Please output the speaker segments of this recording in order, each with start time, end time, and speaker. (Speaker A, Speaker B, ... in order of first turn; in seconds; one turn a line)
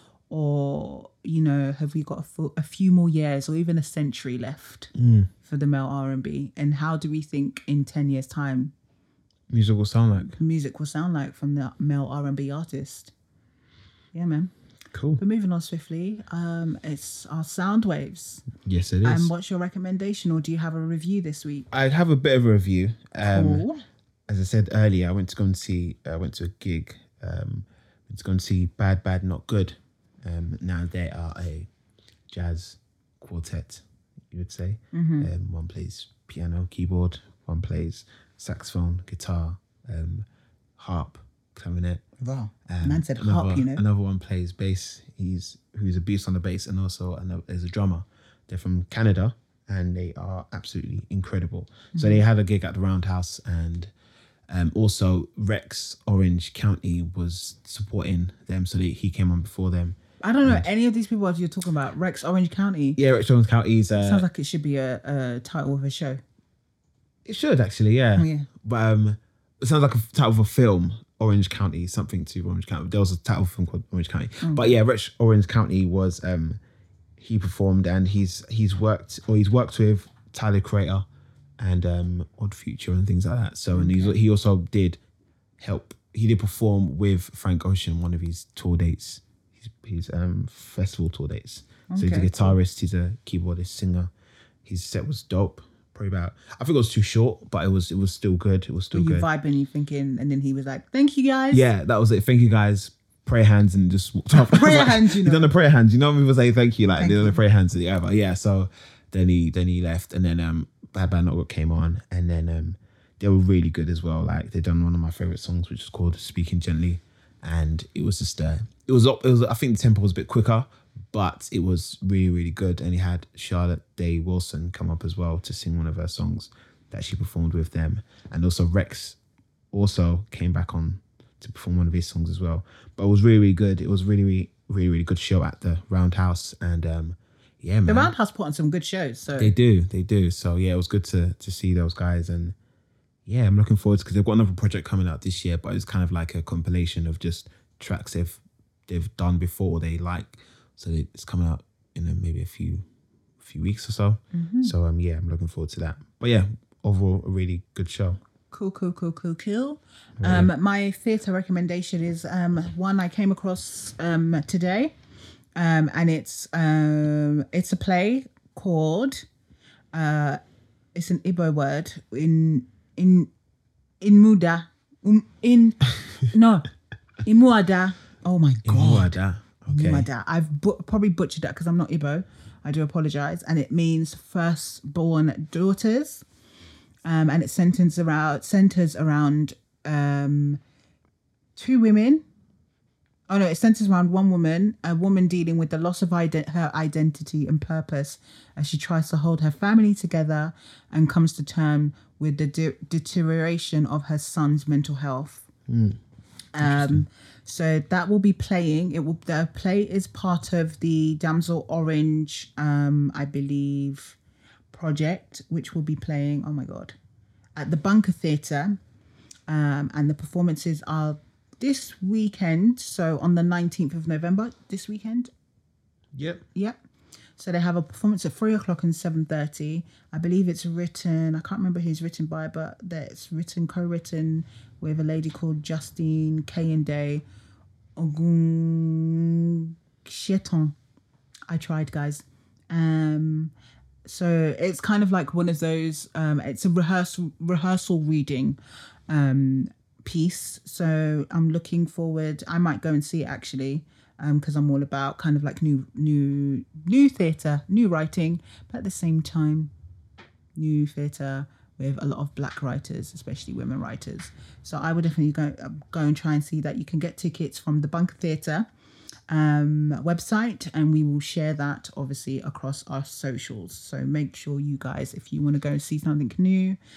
Speaker A: 0.3-4.9
Speaker B: 5.0-5.3
Speaker A: 5.4-8.7
Speaker B: 9.5-10.4
Speaker A: 10.4-13.1
Speaker A: 14.1-14.5
Speaker B: 14.9-15.2
Speaker A: 15.2-18.5
Speaker B: 18.6-19.3
Speaker A: 19.0-21.7
Speaker B: 21.7-23.6
Speaker A: 23.2-23.8
Speaker B: 24.3-31.7
Speaker B: 32.3-40.2
Speaker A: 34.9-35.3
Speaker B: 40.8-42.0
Speaker A: 42.2-43.8
Speaker B: 42.7-53.9
Speaker A: 51.9-52.2
Speaker B: 54.5-60.6
Speaker A: 60.2-63.0
Speaker B: 63.0-64.2
Speaker A: 64.0-66.2
Speaker B: 67.2-76.6
Speaker A: 68.2-68.5
Speaker A: 74.4-74.7
Speaker B: 77.2-81.0
Speaker B: 81.6-85.0
Speaker A: 83.7-84.1
Speaker B: 85.6-94.1
Speaker A: 91.9-92.5
Speaker B: 94.6-99.3
Speaker A: 98.9-101.6
Speaker B: 101.5-129.2
Speaker A: 104.3-105.5
Speaker A: 107.0-107.4
Speaker B: 129.7-138.1
Speaker A: 137.8-139.5
Speaker B: 139.3-142.5
Speaker B: 143.2-152.8
Speaker B: 153.4-158.2
Speaker A: 154.3-154.7
Speaker A: 158.5-164.9
Speaker B: 160.2-160.5
Speaker A: 165.5-169.2
Speaker A: 169.9-170.4
Speaker A: 170.9-173.3
Speaker A: 174.0-176.7
Speaker A: 177.2-179.1
Speaker B: 178.6-180.1
Speaker A: 179.7-186.2
Speaker A: 187.0-190.6
Speaker A: 191.6-192.2
Speaker A: 193.3-205.4
Speaker B: 205.7-206.0
Speaker A: 206.5-214.2
Speaker B: 206.6-207.0
Speaker A: 214.7-216.9
Speaker A: 217.6-218.8
Speaker A: 219.5-225.3
Speaker B: 226.1-226.4
Speaker A: 227.4-237.2
Speaker A: 238.0-240.7
Speaker A: 241.5-243.5
Speaker A: 244.0-248.6
Speaker A: 249.1-259.7
Speaker A: 260.6-268.7
Speaker A: 269.3-276.8